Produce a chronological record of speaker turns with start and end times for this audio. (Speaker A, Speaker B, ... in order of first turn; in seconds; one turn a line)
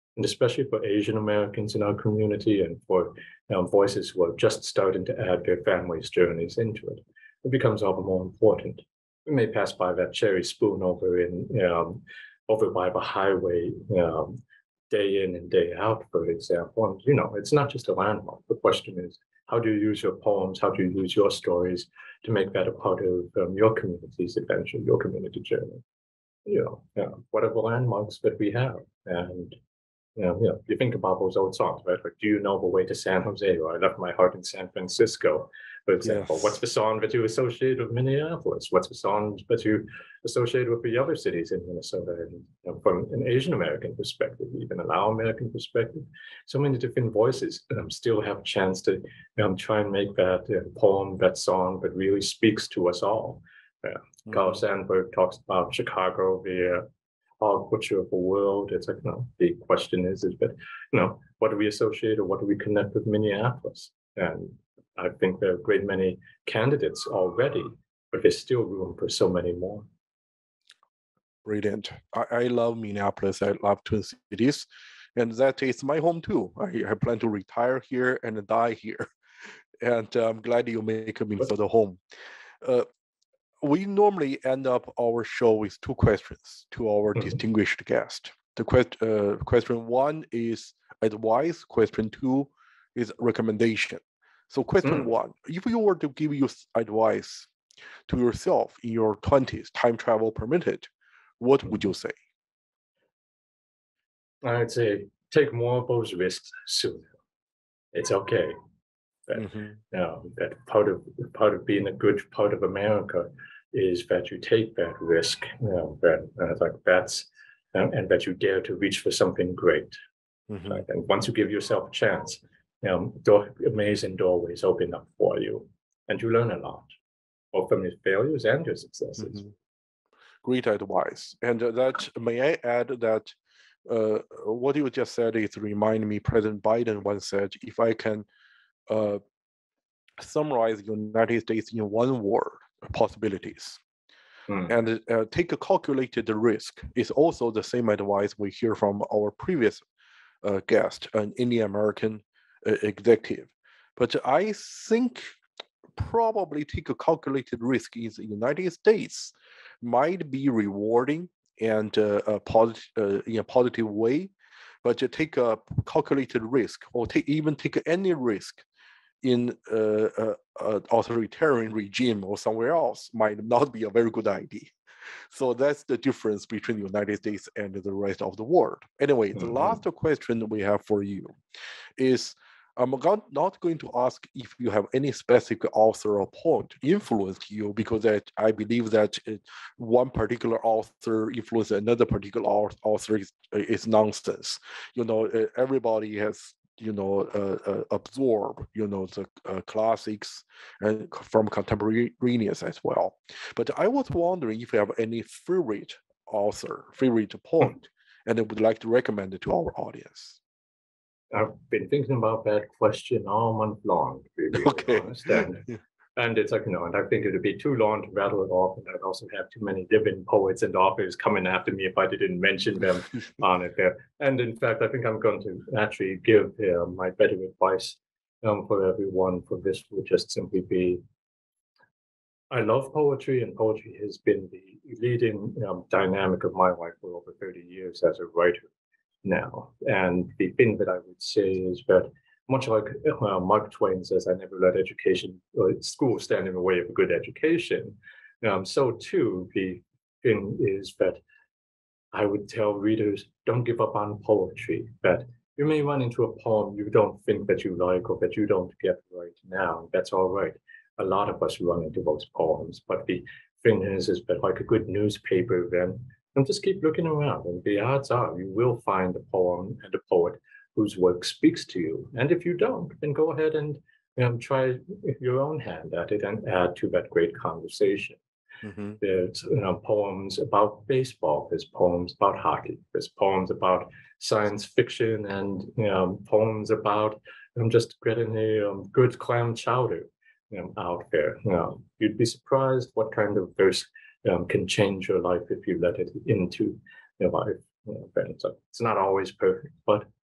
Speaker A: 0.1-14.4
Speaker A: 14.9-25.8
Speaker A: 26.4-29.6
Speaker A: 30.2-56.9
Speaker B: 36.0-36.5
Speaker A: 57.4-69.8
Speaker B: 71.4-79.0
Speaker B: 79.8-82.0
Speaker B: 83.6-97.5
Speaker B: 98.1-102.2
Speaker A: 104.4-107.1
Speaker A: 107.9-108.5
Speaker A: 109.3-120.0
Speaker B: 109.4-109.7
Speaker B: 120.5-120.8
Speaker A: 120.6-126.9
Speaker A: 127.5-129.5
Speaker B: 130.4-133.3
Speaker B: 133.8-138.3
Speaker B: 138.9-139.2
Speaker B: 140.2-143.8
Speaker B: 144.7-149.8
Speaker B: 150.4-155.3
Speaker B: 155.9-164.3
Speaker B: 164.8-168.6
Speaker B: 169.2-174.7
Speaker B: 175.3-181.4
Speaker B: 182.0-210.4
Speaker A: 211.3-231.0
Speaker B: 214.5-215.7
Speaker A: 232.5-238.7
Speaker A: 239.2-251.2
Speaker A: 252.1-278.2
Speaker B: 278.6-279.0
Speaker A: 279.0-300.0